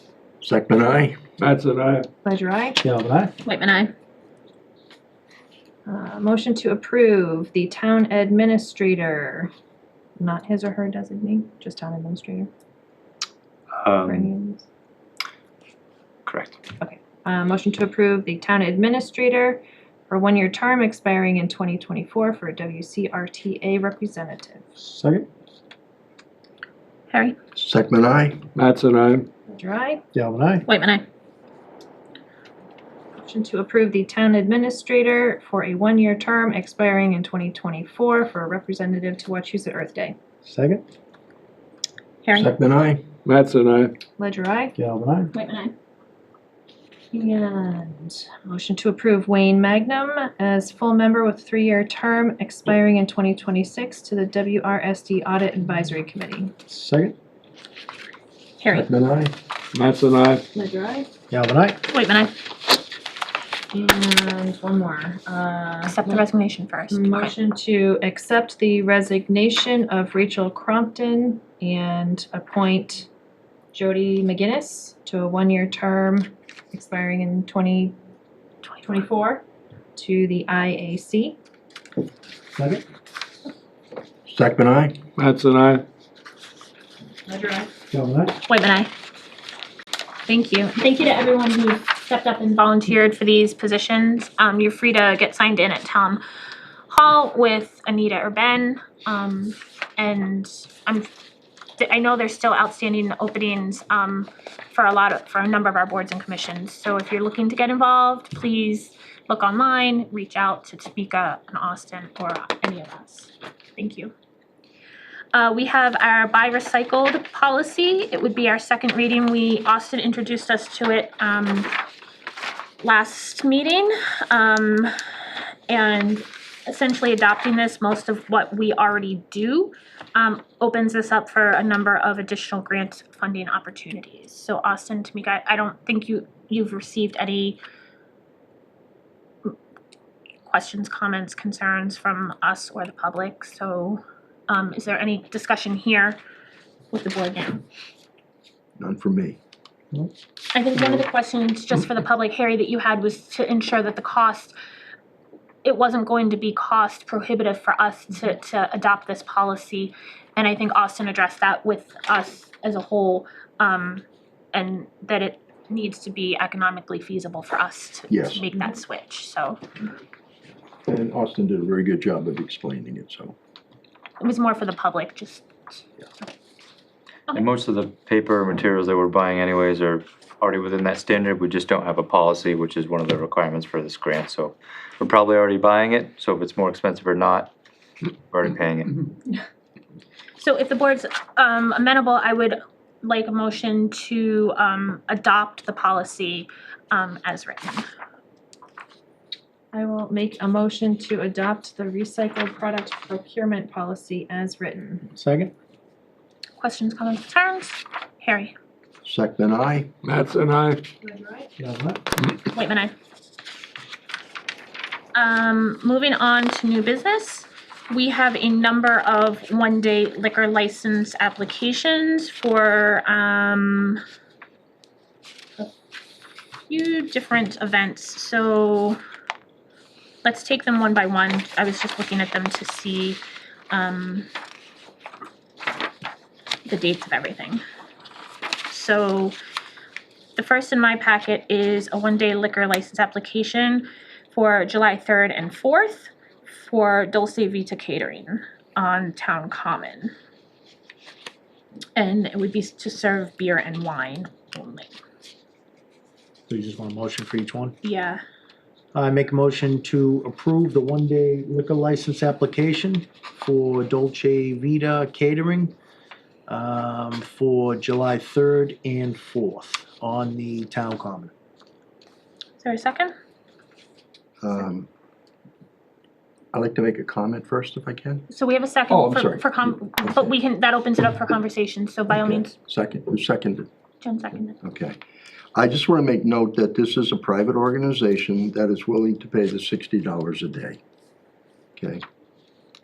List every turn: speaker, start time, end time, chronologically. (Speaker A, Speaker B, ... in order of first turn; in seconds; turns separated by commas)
Speaker A: 0.4-1.1, Speaker B: 1.4-2.1, Speaker C: 2.2-2.8, Speaker D: 2.8-3.3, Speaker E: 3.4-3.9, Speaker C: 5.8-9.5, Speaker C: 10.2-12.5, Speaker F: 13.7-14.3, Speaker C: 14.0-14.7, Speaker F: 16.2-16.6, Speaker C: 16.8-24.7, Speaker D: 24.8-25.3, Speaker E: 27.1-27.4, Speaker A: 27.6-28.4, Speaker B: 28.6-29.3, Speaker C: 29.5-30.0, Speaker D: 30.1-30.6, Speaker E: 30.7-31.0, Speaker C: 33.2-40.1, Speaker D: 40.4-40.8, Speaker A: 42.3-43.0, Speaker B: 43.2-43.9, Speaker C: 44.2-44.8, Speaker D: 44.8-45.3, Speaker E: 45.3-45.7, Speaker C: 47.1-56.5, Speaker D: 56.7-57.1, Speaker E: 58.6-58.9, Speaker A: 58.7-59.3, Speaker B: 59.7-60.4, Speaker C: 60.5-61.1, Speaker D: 61.3-61.8, Speaker E: 61.9-62.3, Speaker C: 63.7-66.2, Speaker E: 65.8-67.3, Speaker C: 66.9-73.1, Speaker C: 73.7-77.9, Speaker C: 78.8-79.4, Speaker C: 80.0-81.4, Speaker D: 82.5-82.8, Speaker A: 84.2-85.0, Speaker B: 85.2-85.8, Speaker C: 87.3-87.7, Speaker D: 87.9-88.4, Speaker E: 88.5-88.9, Speaker E: 90.3-96.2, Speaker E: 96.9-101.1, Speaker E: 101.8-114.1, Speaker E: 115.3-121.7, Speaker E: 122.8-124.9, Speaker E: 125.7-137.6, Speaker E: 140.4-146.2, Speaker E: 146.9-147.6, Speaker A: 148.8-149.4, Speaker E: 150.5-154.5, Speaker E: 155.6-169.6, Speaker A: 168.1-168.4, Speaker A: 170.9-173.3, Speaker E: 174.2-175.5, Speaker F: 177.3-187.5, Speaker F: 188.3-189.0, Speaker E: 190.4-197.8, Speaker C: 199.7-205.1, Speaker D: 205.1-205.5, Speaker E: 206.6-208.5, Speaker A: 209.0-209.9, Speaker B: 210.0-210.8, Speaker C: 211.0-211.5, Speaker D: 211.6-212.0, Speaker E: 212.5-212.9, Speaker E: 215.1-224.0, Speaker E: 226.7-229.0, Speaker E: 230.2-234.3, Speaker E: 236.6-237.6, Speaker E: 238.7-239.3, Speaker E: 240.3-250.1, Speaker E: 251.9-254.9, Speaker D: 256.5-257.7, Speaker E: 257.8-258.2, Speaker D: 258.9-265.7, Speaker D: 266.5-271.3, Speaker E: 272.6-273.1, Speaker A: 274.4-274.9, Speaker A: 276.5-278.2, Speaker E: 278.3-282.5, Speaker A: 278.9-280.3, Speaker A: 282.1-283.7, Speaker E: 284.0-284.6, Speaker A: 284.6-285.0, Speaker A: 285.5-290.8, Speaker A: 291.8-292.0